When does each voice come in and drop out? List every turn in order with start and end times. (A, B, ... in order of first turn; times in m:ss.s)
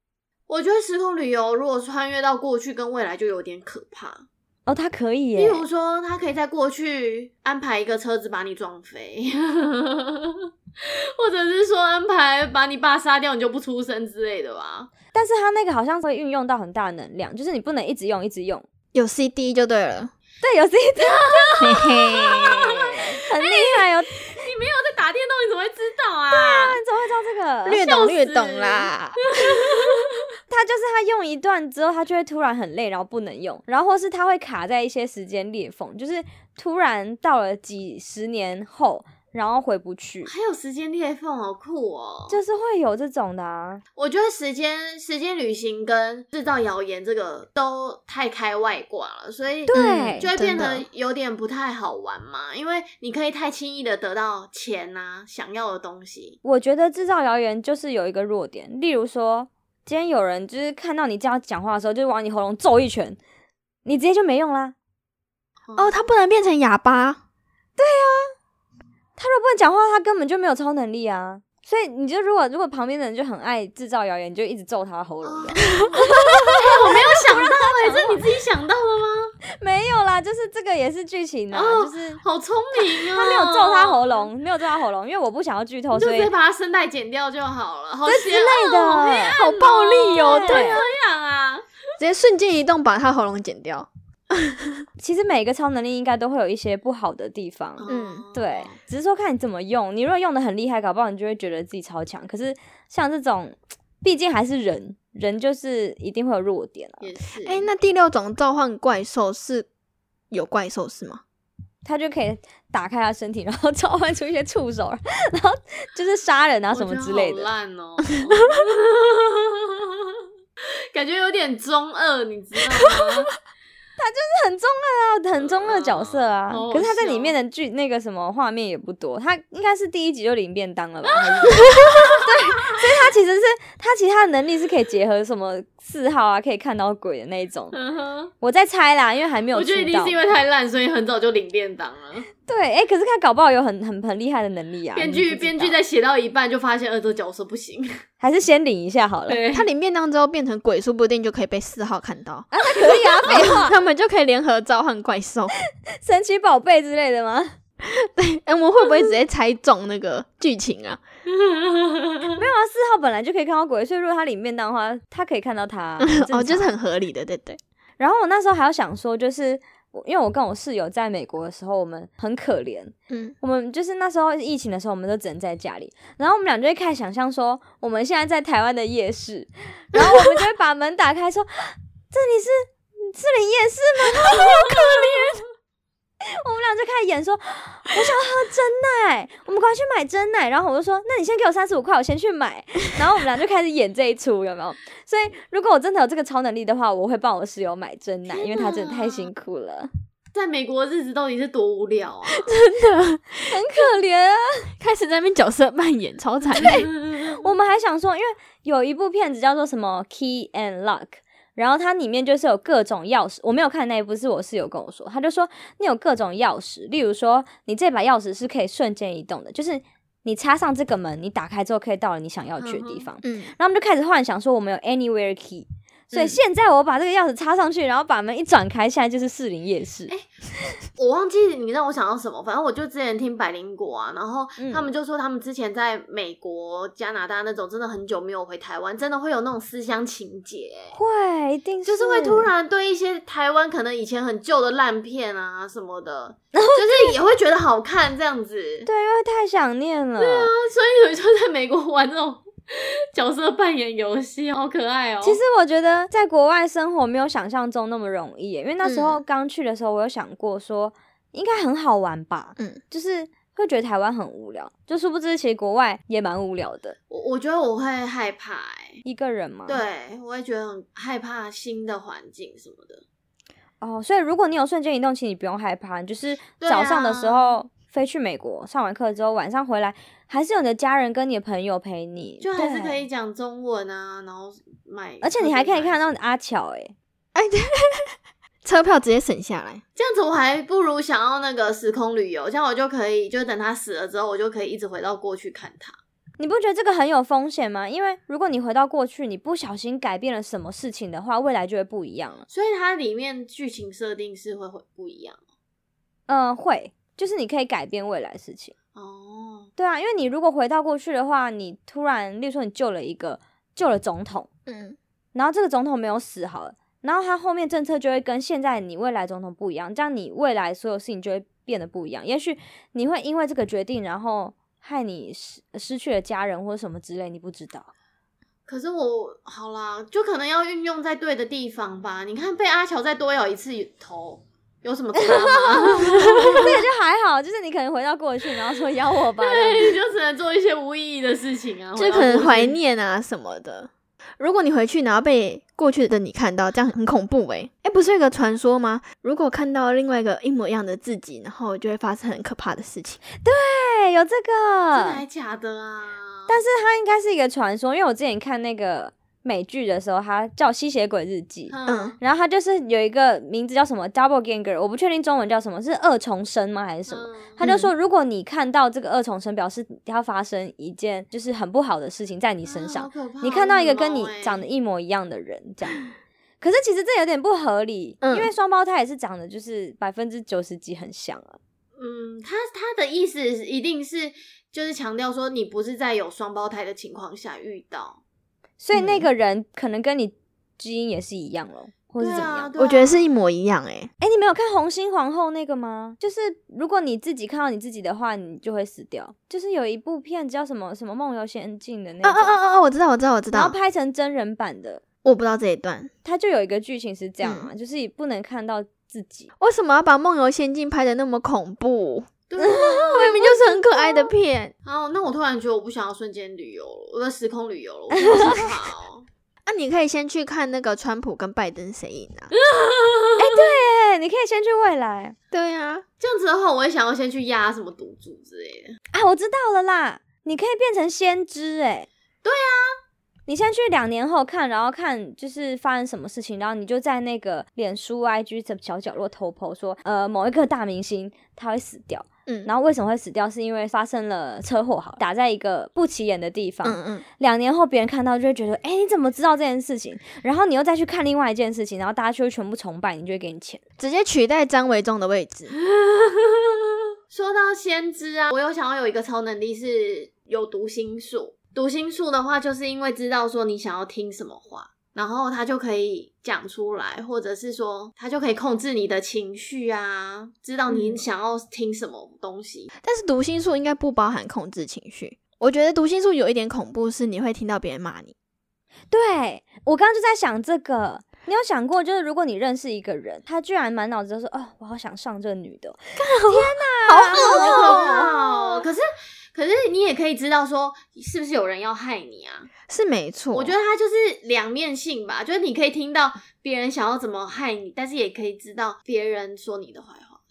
0:00.5-0:04.3 A
0:04.7-0:05.6 B
0:05.4-0:14.9 A
0:15.1-0:18.6 B
0:18.9-0:20.1 C
0:20.4-0:24.1 B
0:21.0-0:26.8 A
0:21.6-0:22.8 C
0:26.3-0:28.0 B
0:27.7-0:30.0 C
0:27.8-0:30.2 A
0:30.5-0:40.3 B
0:40.3-0:42.4 A
0:42.3-0:43.8 B
0:44.0-0:56.4 A
0:49.7-0:50.3 B
0:49.7-0:50.9 C
0:56.4-1:03.2 B
1:03.8-1:04.8 B
1:05.7-1:06.2 A
1:05.8-1:07.2 C
1:07.8-1:08.3 B
1:09.2-1:18.2 B
1:15.2-1:19.3 A
1:15.8-1:16.6 C
1:19.6-1:22.2 B
1:21.5-1:24.3 A
1:22.7-1:26.3 B
1:26.0-1:31.8 A
1:28.1-1:29.4 B
1:29.4-1:30.8 C
1:30.2-1:30.8 B
1:32.0-1:34.8 C
1:35.0-1:47.1 B
1:37.8-1:38.8 A
1:37.9-1:38.2 C
1:47.0-1:47.7 A
1:47.4-1:49.7 C
1:50.3-1:51.2 C
1:51.8-1:57.5 B
1:56.7-2:00.2 A
2:00.9-2:03.3 A
2:04.0-2:17.8 B
2:05.4-2:07.4 A
2:11.0-2:12.8 A
2:17.7-2:18.3 A
2:18.4-2:20.2 B
2:19.5-2:22.3 A
2:22.5-2:25.8 B
2:25.0-2:28.0 A
2:28.2-2:29.4 B
2:29.3-2:29.7 A
2:29.5-2:35.5 C
2:32.5-2:33.7 B
2:35.9-2:37.6 B
2:37.8-2:41.0 C
2:41.3-2:42.4 A
2:42.3-2:46.7 B
2:46.0-2:47.6 C
2:48.0-3:05.4 B
2:53.1-2:53.4 C
3:00.0-3:00.4 C
3:04.3-3:05.3 C
3:06.2-3:19.9 B
3:18.3-3:19.3 A
3:20.3-3:22.5 A
3:22.3-3:23.9 C
3:23.5-3:24.7 B
3:24.8-3:26.9 C
3:26.6-3:50.1 B
3:26.6-3:27.2 A
3:42.6-3:43.1 A
3:43.2-3:43.5 C
3:51.0-4:01.0 A
3:54.6-3:54.9 B
4:00.9-4:02.5 B
4:01.8-4:08.9 A
4:06.6-4:07.2 B
4:08.9-4:10.5 B
4:10.2-4:15.4 A
4:15.2-4:27.0 B
4:18.8-4:19.2 C
4:27.1-4:29.0 A
4:29.0-4:29.8 B
4:29.7-4:33.0 A
4:33.8-4:43.0 B
4:36.6-4:37.6 A
4:42.4-4:46.2 A
4:45.2-4:47.0 B
4:47.3-4:49.8 C
4:50.0-4:56.0 A
4:56.4-5:02.4 B
5:02.5-5:05.4 A
5:06.3-5:08.7 B
5:09.0-5:09.7 A
5:09.8-5:14.5 B
5:14.7-5:15.0 C
5:15.4-5:27.9 B
5:28.7-5:36.8 A
5:35.2-5:40.0 B
5:36.2-5:36.7 C
5:39.4-5:42.7 A
5:42.0-5:53.2 C
5:53.4-5:55.2 B
5:54.9-5:56.6 A
5:56.5-6:16.1 B
6:01.7-6:02.2 A
6:01.9-6:02.2 C
6:07.1-6:07.6 A
6:07.6-6:07.9 C
6:12.7-6:14.6 A
6:16.6-6:21.6 B
6:18.2-6:18.5 C
6:22.0-6:28.2 A
6:28.8-6:32.7 B
6:28.9-6:29.3 C
6:32.2-6:33.2 A
6:32.8-6:34.1 C
6:34.2-6:42.6 B
6:42.2-6:43.8 C
6:43.5-6:45.0 B
6:45.2-6:46.1 C
6:46.2-6:49.5 B
6:47.4-6:47.7 C
6:49.6-6:52.3 C
6:52.5-6:53.6 A
6:52.6-6:53.5 B
6:53.1-6:54.7 C
6:54.9-6:59.2 A
6:58.2-6:58.6 B
6:58.3-6:58.6 C
6:59.7-7:02.5 C
7:02.5-7:03.7 A
7:03.4-7:05.4 B
7:05.5-7:06.0 C
7:06.2-7:09.0 A
7:09.1-7:12.1 B
7:12.4-7:13.0 A
7:13.5-7:33.8 B
7:26.8-7:27.2 C
7:34.0-7:35.7 C
7:35.8-7:52.9 A
7:53.0-7:58.3 C
7:59.1-8:08.6 B
8:06.2-8:08.4 C
8:07.3-8:12.7 A
8:12.9-8:13.8 C
8:13.5-8:20.4 A